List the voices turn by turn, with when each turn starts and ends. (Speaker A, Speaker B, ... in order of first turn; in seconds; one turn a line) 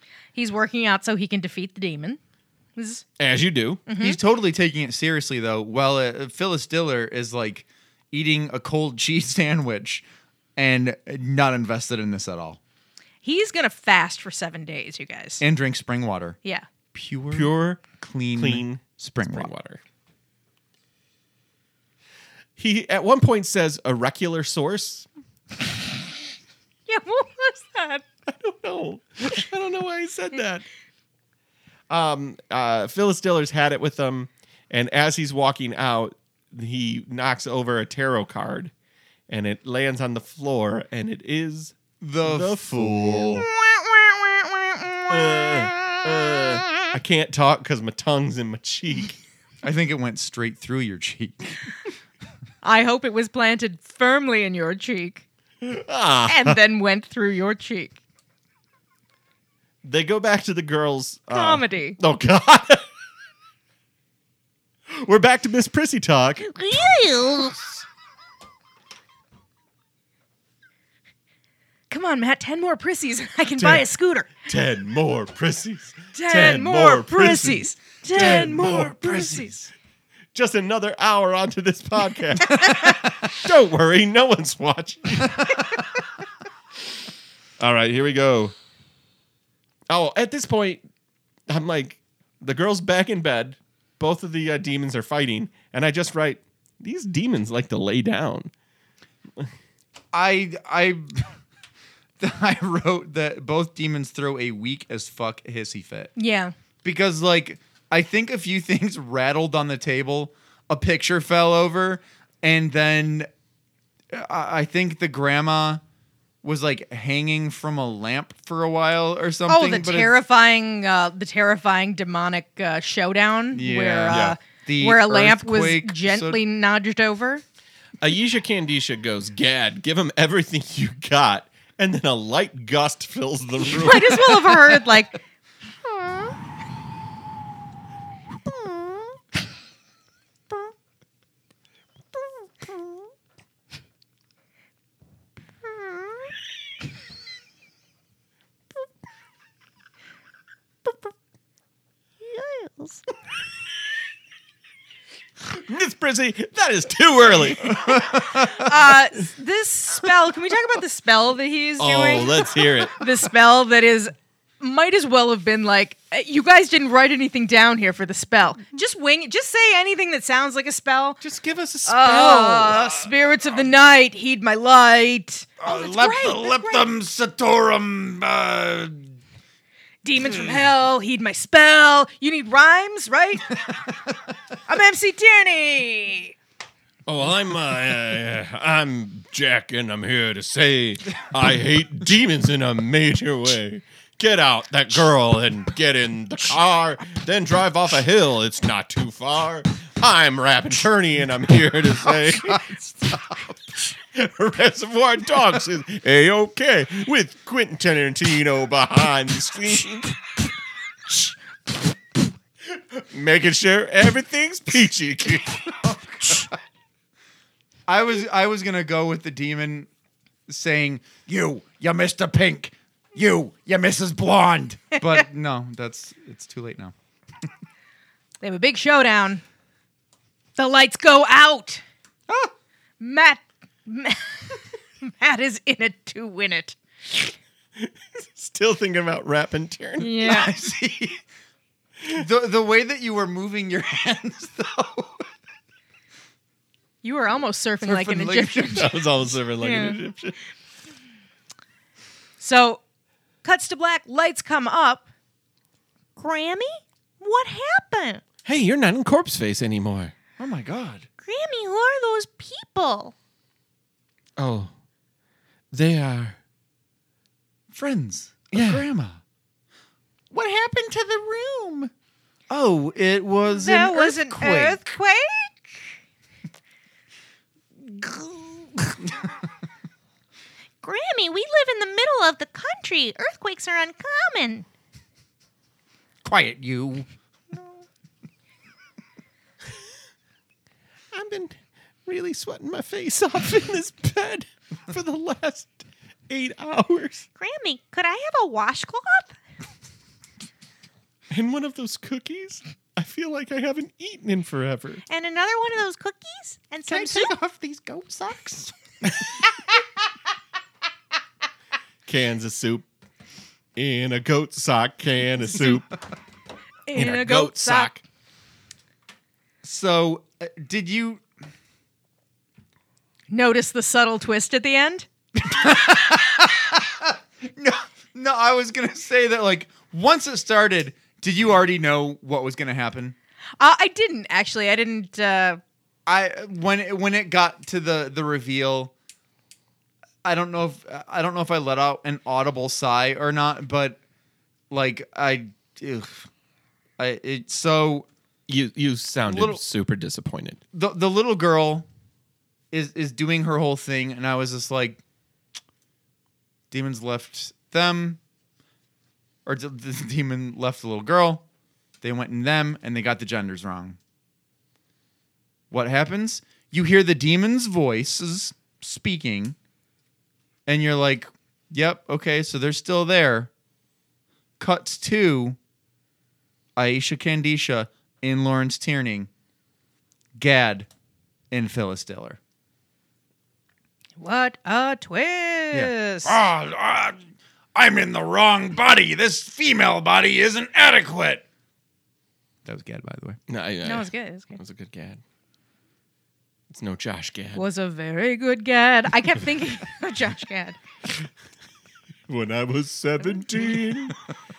Speaker A: 0.3-2.2
Speaker A: 2.8-3.0
Speaker B: 3.2-3.8
Speaker A: 3.9-4.2
Speaker C: 4.0-10.0
Speaker C: 10.6-12.6
Speaker A: 13.2-15.4
Speaker C: 15.4-16.4
Speaker C: 16.9-19.5
Speaker B: 17.3-17.8
Speaker B: 18.4-19.8
Speaker B: 22.6-25.1
Speaker A: 26.9-28.1
Speaker B: 28.3-30.6
Speaker B: 31.9-38.7
Speaker B: 39.3-43.5
Speaker C: 42.0-43.5
Speaker A: 43.7-45.2
Speaker B: 45.1-49.2
Speaker C: 49.6-51.8
Speaker A: 52.6-55.2
Speaker B: 55.6-56.6
Speaker A: 56.3-58.0
Speaker B: 59.8-62.9
Speaker A: 61.3-62.0
Speaker B: 64.9-66.5
Speaker A: 66.4-67.8
Speaker A: 71.9-74.3
Speaker B: 73.6-73.8
Speaker B: 74.5-78.8
Speaker A: 76.1-79.6
Speaker C: 78.2-79.6
Speaker B: 80.3-85.5
Speaker A: 82.5-83.0
Speaker B: 87.6-88.5
Speaker B: 89.9-90.8
Speaker B: 91.5-98.5
Speaker C: 100.1-101.3
Speaker C: 102.2-106.1
Speaker A: 106.2-106.5
Speaker C: 106.8-113.3
Speaker C: 114.1-115.8
Speaker C: 116.4-120.1
Speaker A: 119.5-127.4
Speaker C: 123.5-126.4
Speaker B: 124.1-124.4
Speaker B: 128.0-134.8
Speaker A: 133.6-135.2
Speaker A: 135.9-136.3
Speaker A: 138.5-139.0
Speaker A: 145.7-146.1
Speaker A: 152.2-153.0
Speaker B: 155.4-158.2
Speaker C: 157.8-158.5
Speaker A: 158.1-171.2
Speaker B: 161.8-163.0
Speaker B: 171.2-172.9
Speaker A: 171.8-176.9
Speaker C: 175.6-179.1
Speaker A: 180.0-183.6
Speaker A: 184.7-186.3
Speaker B: 187.1-202.7
Speaker C: 202.4-203.5
Speaker B: 204.1-210.2
Speaker B: 212.8-215.7
Speaker C: 215.8-216.5
Speaker C: 217.9-219.9
Speaker C: 220.5-226.9
Speaker A: 228.4-229.4
Speaker A: 230.6-231.8
Speaker A: 233.0-237.3
Speaker B: 237.8-240.2
Speaker A: 240.0-240.5
Speaker C: 240.2-241.2
Speaker C: 242.1-245.3
Speaker A: 247.0-248.9
Speaker C: 247.8-249.1
Speaker B: 248.7-250.4
Speaker A: 249.6-250.0
Speaker A: 252.4-252.8
Speaker A: 253.4-255.1
Speaker A: 256.2-258.2
Speaker B: 258.4-260.1
Speaker C: 260.4-261.1
Speaker A: 261.2-263.1
Speaker B: 264.4-264.7
Speaker B: 265.7-266.4
Speaker C: 267.7-269.2
Speaker B: 268.5-268.9
Speaker C: 270.3-271.9
Speaker C: 272.5-274.8
Speaker A: 273.5-275.8
Speaker C: 278.0-279.0
Speaker A: 280.8-284.7
Speaker C: 286.2-287.1
Speaker B: 291.1-297.3
Speaker A: 297.4-299.4
Speaker B: 301.3-305.0
Speaker A: 305.1-307.3
Speaker C: 306.9-309.7
Speaker B: 312.1-312.9
Speaker B: 313.8-315.9
Speaker A: 316.9-317.9
Speaker B: 316.9-318.0
Speaker C: 319.6-321.2
Speaker A: 323.3-325.1
Speaker C: 325.4-333.1
Speaker A: 333.6-335.6
Speaker C: 336.1-338.9
Speaker C: 340.2-344.0
Speaker C: 344.7-346.3
Speaker C: 347.0-348.1
Speaker B: 348.5-350.6
Speaker C: 349.3-349.6
Speaker C: 350.7-351.9
Speaker C: 352.7-355.0
Speaker C: 356.7-358.2
Speaker C: 359.5-361.4
Speaker C: 362.0-364.0
Speaker C: 365.7-369.6
Speaker C: 370.7-373.5
Speaker C: 374.6-375.6
Speaker C: 376.8-379.3
Speaker C: 380.4-380.9
Speaker C: 381.5-382.4
Speaker A: 384.2-386.4
Speaker C: 385.7-387.2
Speaker C: 387.8-391.4
Speaker C: 392.6-393.4
Speaker B: 393.5-395.2
Speaker A: 393.8-394.6
Speaker B: 396.7-397.6
Speaker A: 397.6-400.8
Speaker B: 402.3-404.2